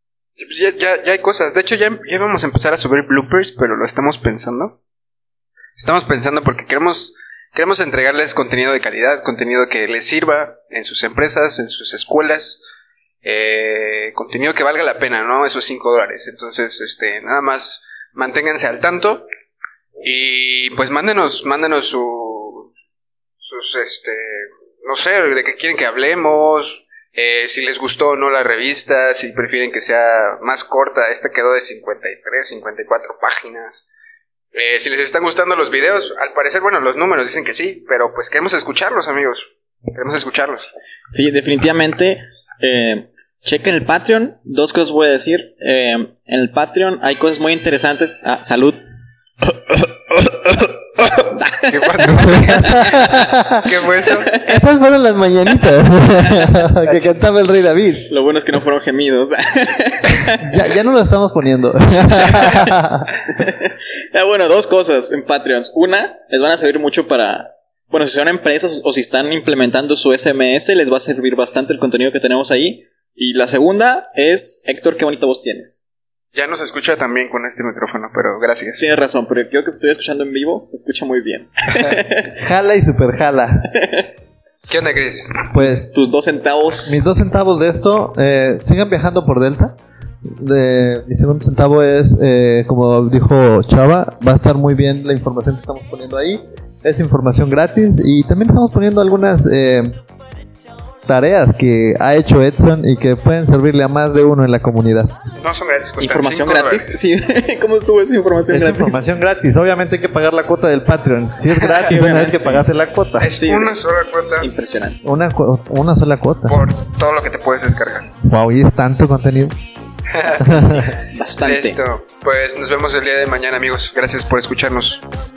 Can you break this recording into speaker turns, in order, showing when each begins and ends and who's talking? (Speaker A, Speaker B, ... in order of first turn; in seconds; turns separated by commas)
Speaker A: 0.4-4.8, Speaker A: 5.8-12.6, Speaker A: 13.2-19.3, Speaker A: 20.0-22.7, Speaker A: 23.4-33.8, Speaker A: 34.5-40.7, Speaker B: 41.1-48.8, Speaker B: 49.4-53.4, Speaker A: 51.7-54.3, Speaker C: 52.1-53.5, Speaker B: 54.2-54.5, Speaker C: 54.4-58.1, Speaker A: 56.3-57.3, Speaker B: 58.1-60.6, Speaker C: 60.4-63.1, Speaker B: 62.2-62.6, Speaker B: 63.3-75.9, Speaker A: 76.3-78.8, Speaker B: 78.8-82.3, Speaker C: 82.4-83.7, Speaker B: 83.8-84.0, Speaker A: 84.7-85.5, Speaker C: 85.5-86.0, Speaker B: 85.6-87.0, Speaker C: 86.9-89.8, Speaker C: 90.4-99.9, Speaker C: 101.1-105.1, Speaker A: 105.4-107.0, Speaker B: 106.0-109.1, Speaker C: 108.5-113.3, Speaker B: 111.7-112.7, Speaker A: 113.2-114.5, Speaker B: 113.3-115.1, Speaker C: 115.0-116.7, Speaker A: 116.5-118.1, Speaker C: 118.2-119.5, Speaker A: 120.1-125.0, Speaker C: 120.3-121.0, Speaker B: 121.1-121.8